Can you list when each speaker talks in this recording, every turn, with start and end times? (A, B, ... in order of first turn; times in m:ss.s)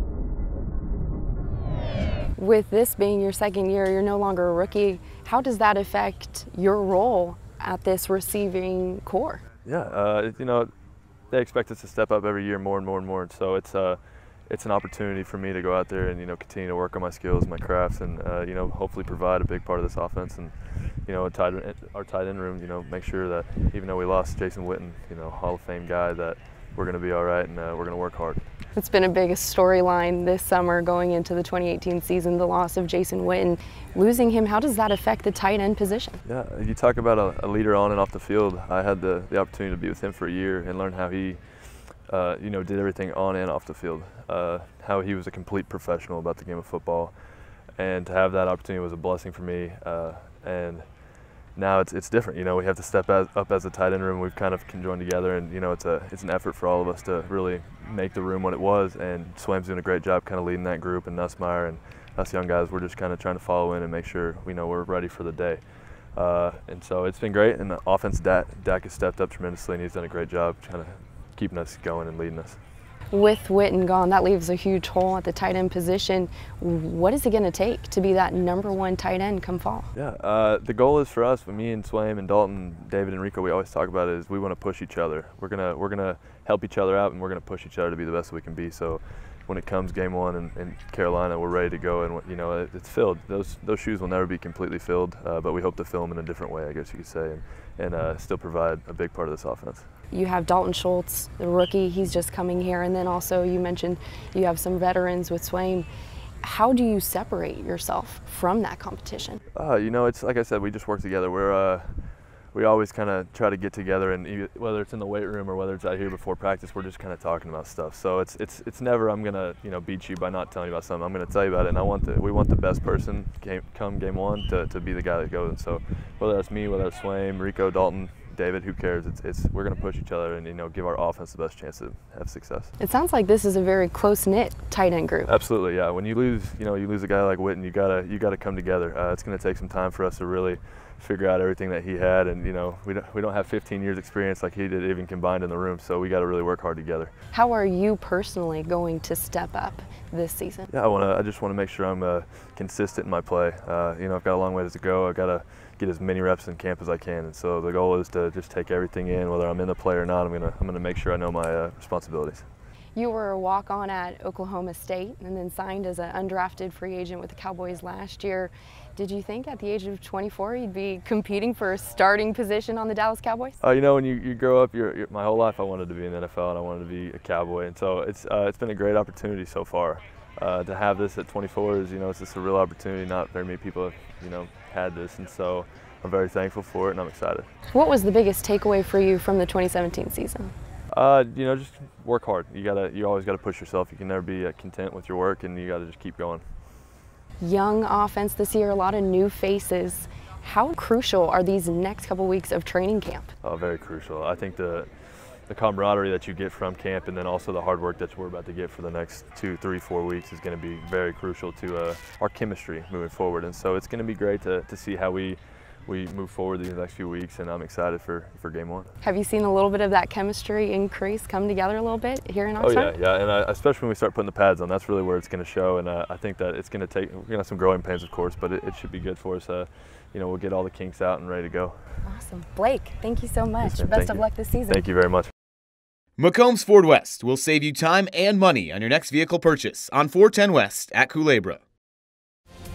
0:02.4-0:09.4 A
0:09.6-0:10.7 B
0:11.3-0:28.4 B
0:28.7-0:36.2 A
0:36.2-0:41.4 B
0:42.1-0:47.1 B
0:47.8-0:50.8 B
0:51.6-1:05.6 B
1:06.1-1:12.6 B
1:13.1-1:19.9 A
1:20.0-1:39.8 B
1:40.1-1:45.9 A
1:46.4-1:49.4 A
1:49.5-1:51.9 B
1:52.5-2:12.7 B
2:12.8-2:15.3 A
2:15.2-2:27.1 B
2:27.3-2:30.7 A
2:30.7-2:42.4 B
2:42.9-2:53.6 A
2:53.6-3:07.5 B
3:07.7-3:10.5 A
3:10.9-3:16.4 B
3:17.4-3:23.3 A
3:23.4-3:24.9 B
3:25.5-3:38.9 B
3:39.0-3:43.0 A
3:42.6-3:51.8 B
3:52.0-3:54.8 A
3:53.6-3:55.3 B
3:56.2-4:01.6 C